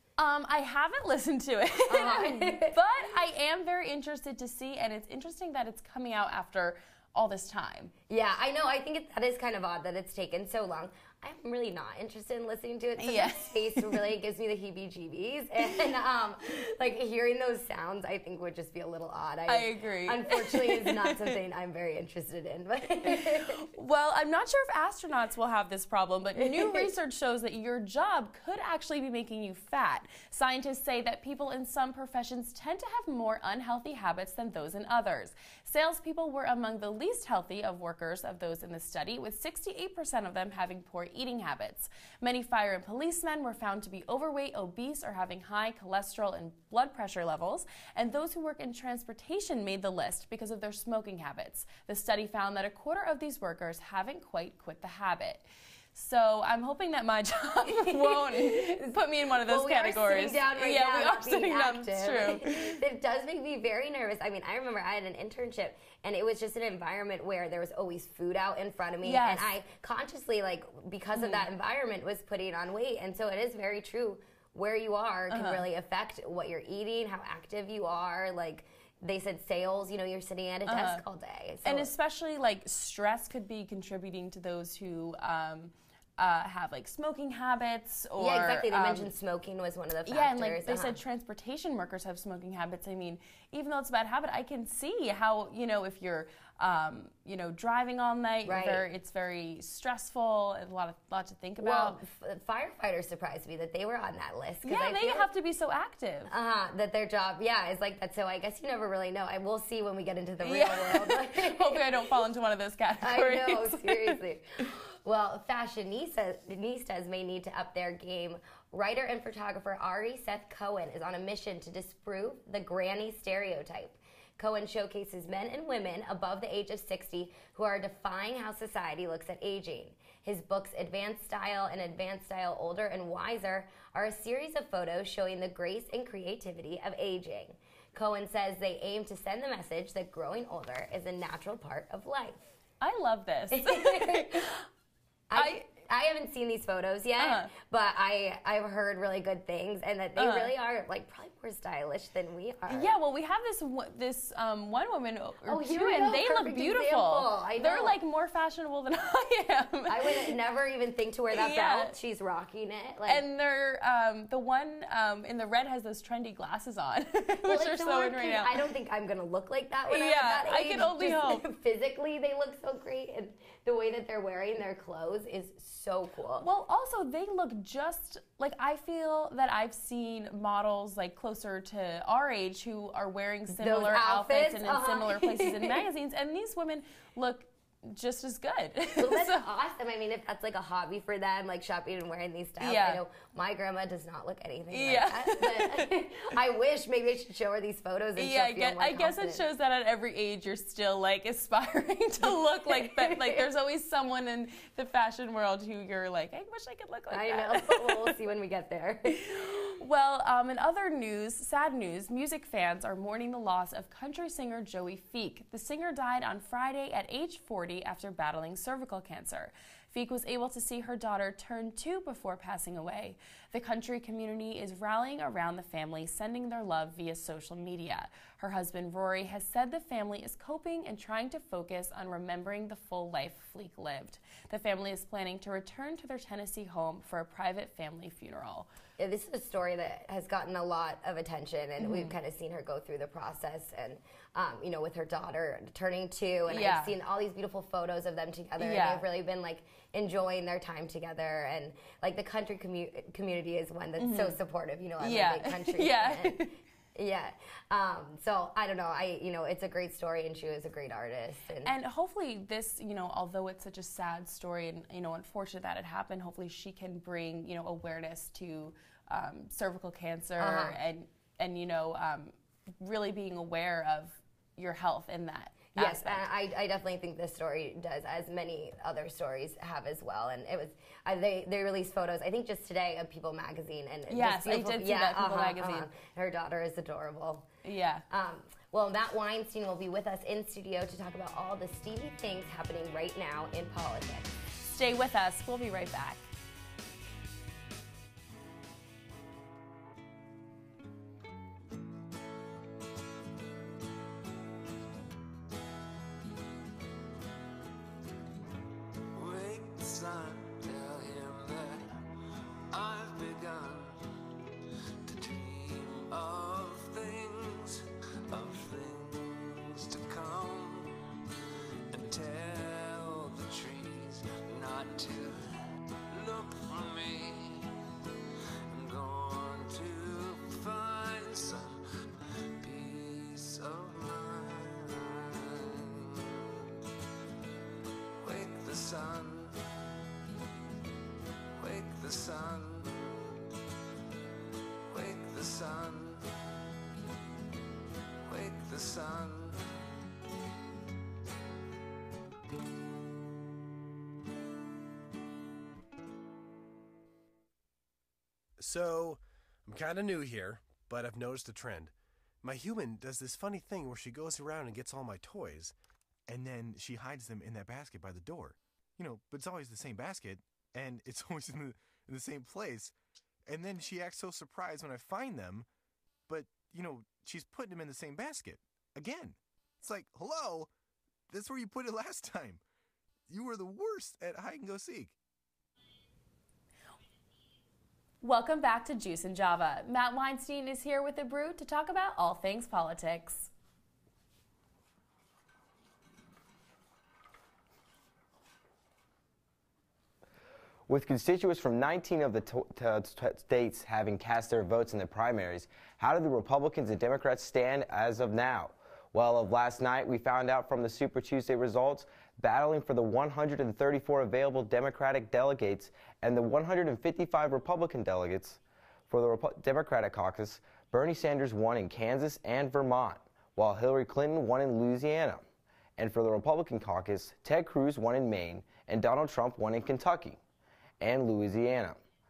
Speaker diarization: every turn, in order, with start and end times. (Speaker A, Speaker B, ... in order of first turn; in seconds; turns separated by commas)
Speaker A: 0.2-7.9, Speaker B: 1.9-2.8, Speaker B: 8.1-23.6, Speaker A: 13.0-14.0, Speaker A: 19.5-21.3, Speaker A: 23.1-62.8, Speaker B: 26.4-26.9, Speaker B: 57.8-58.9, Speaker B: 59.4-81.9, Speaker A: 69.0-69.5, Speaker A: 71.2-71.5, Speaker A: 75.3-75.7, Speaker A: 80.7-81.0, Speaker A: 81.6-89.1, Speaker B: 88.2-91.0, Speaker A: 90.1-102.0, Speaker B: 98.5-98.8, Speaker B: 101.6-105.3, Speaker A: 104.6-106.3, Speaker B: 106.3-111.9, Speaker A: 110.4-114.2, Speaker B: 113.0-142.6, Speaker A: 142.8-144.6, Speaker B: 143.6-144.4, Speaker B: 145.3-152.9, Speaker A: 145.3-145.6, Speaker A: 147.2-147.5, Speaker A: 150.2-150.5, Speaker A: 152.7-160.3, Speaker B: 155.5-158.0, Speaker B: 159.9-163.2, Speaker A: 161.3-161.9, Speaker A: 163.1-168.5, Speaker B: 167.4-176.5, Speaker A: 169.9-171.5, Speaker A: 176.4-189.5, Speaker B: 183.5-185.8, Speaker B: 189.0-199.4, Speaker A: 192.6-193.0, Speaker A: 194.7-196.1, Speaker A: 198.2-208.1, Speaker B: 202.7-203.4, Speaker B: 207.1-209.2, Speaker A: 209.1-238.7, Speaker B: 239.0-261.7, Speaker A: 241.8-242.1, Speaker A: 246.5-246.9, Speaker A: 248.6-249.0, Speaker A: 254.0-254.4, Speaker A: 255.0-256.5, Speaker A: 261.6-276.3, Speaker B: 270.4-270.8, Speaker B: 275.8-287.5, Speaker A: 284.1-285.9, Speaker A: 287.6-288.0, Speaker B: 288.1-294.3, Speaker A: 294.6-296.3, Speaker C: 309.1-311.9, Speaker C: 312.7-314.0, Speaker C: 315.1-321.2, Speaker C: 321.9-325.4, Speaker C: 326.1-327.7, Speaker C: 328.7-331.8, Speaker C: 332.6-336.6, Speaker C: 338.2-339.6, Speaker C: 341.6-343.4, Speaker C: 344.9-346.2, Speaker C: 348.2-349.7, Speaker D: 358.6-365.7, Speaker D: 366.3-372.9, Speaker D: 373.5-375.7, Speaker D: 376.3-380.7, Speaker D: 381.3-382.6, Speaker D: 383.3-385.2, Speaker A: 388.2-393.5, Speaker E: 400.9-425.4, Speaker E: 426.0-430.4, Speaker E: 431.0-432.0